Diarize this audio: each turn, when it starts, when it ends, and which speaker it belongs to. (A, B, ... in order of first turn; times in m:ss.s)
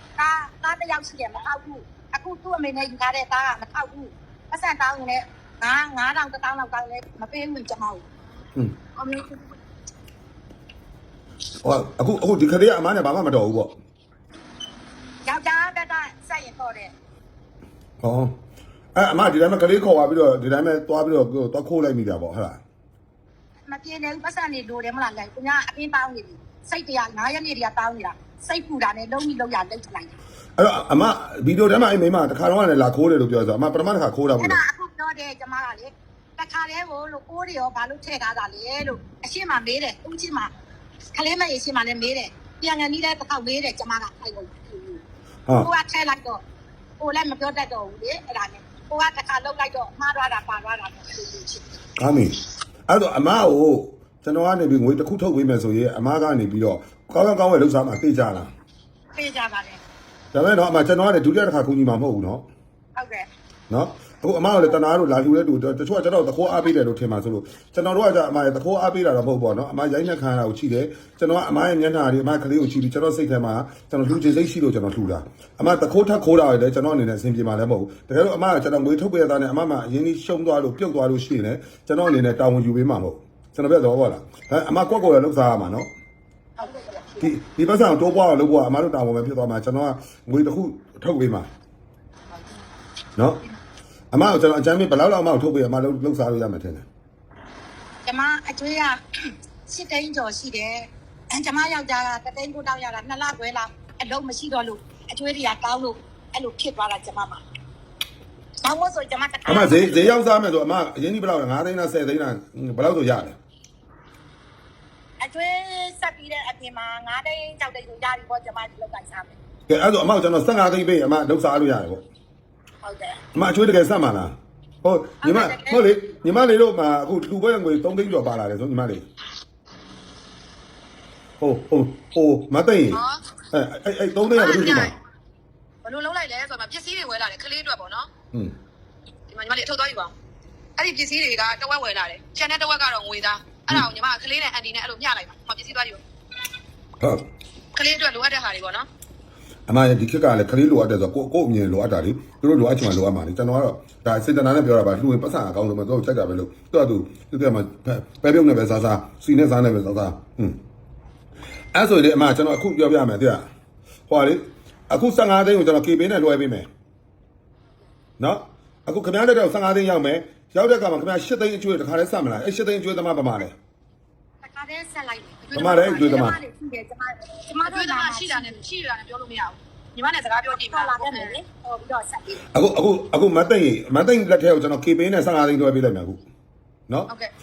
0:00.2-0:08.0 A
0:08.9-0:09.6 B
0:11.6-0:13.8 C
0:15.2-0:16.9 A
0:18.0-0:18.3 C
0:18.9-0:22.6 C
0:23.7-0:30.1 A
0:30.6-0:34.6 C
0:34.4-0:40.5 A
0:41.1-0:45.0 A
0:45.5-0:46.4 A
0:47.0-0:51.8 A
0:52.0-0:58.5 C
0:59.1-0:59.8 A
1:00.3-1:02.5 C
1:02.9-1:03.2 A
1:03.7-1:25.9 C
1:26.6-1:27.3 B
1:27.2-1:31.5 C
1:33.2-1:33.4 C
1:34.1-1:36.8 C
1:38.0-1:39.0 A
1:39.7-1:47.4 A
1:48.6-1:50.2 A
1:49.5-1:53.4 C
1:55.2-1:59.4 A
1:59.7-2:02.0 C
2:02.8-2:03.2 A
2:03.3-2:09.1 C
2:05.2-2:05.8 A
2:11.4-2:15.0 C
2:12.9-2:13.2 B
2:14.3-2:14.9 B
2:15.8-2:18.1 B
2:19.3-2:20.1 B
2:20.8-2:26.0 B
2:27.7-2:28.9 B
2:29.7-2:40.6 C
2:41.7-2:43.5 C
2:44.1-2:46.7 C
2:48.2-2:53.5 C
2:54.4-2:58.6 A
2:55.5-2:56.2 B
2:55.5-2:56.4 C
2:57.7-3:01.4 B
3:00.6-3:02.4 A
3:02.5-3:06.2 C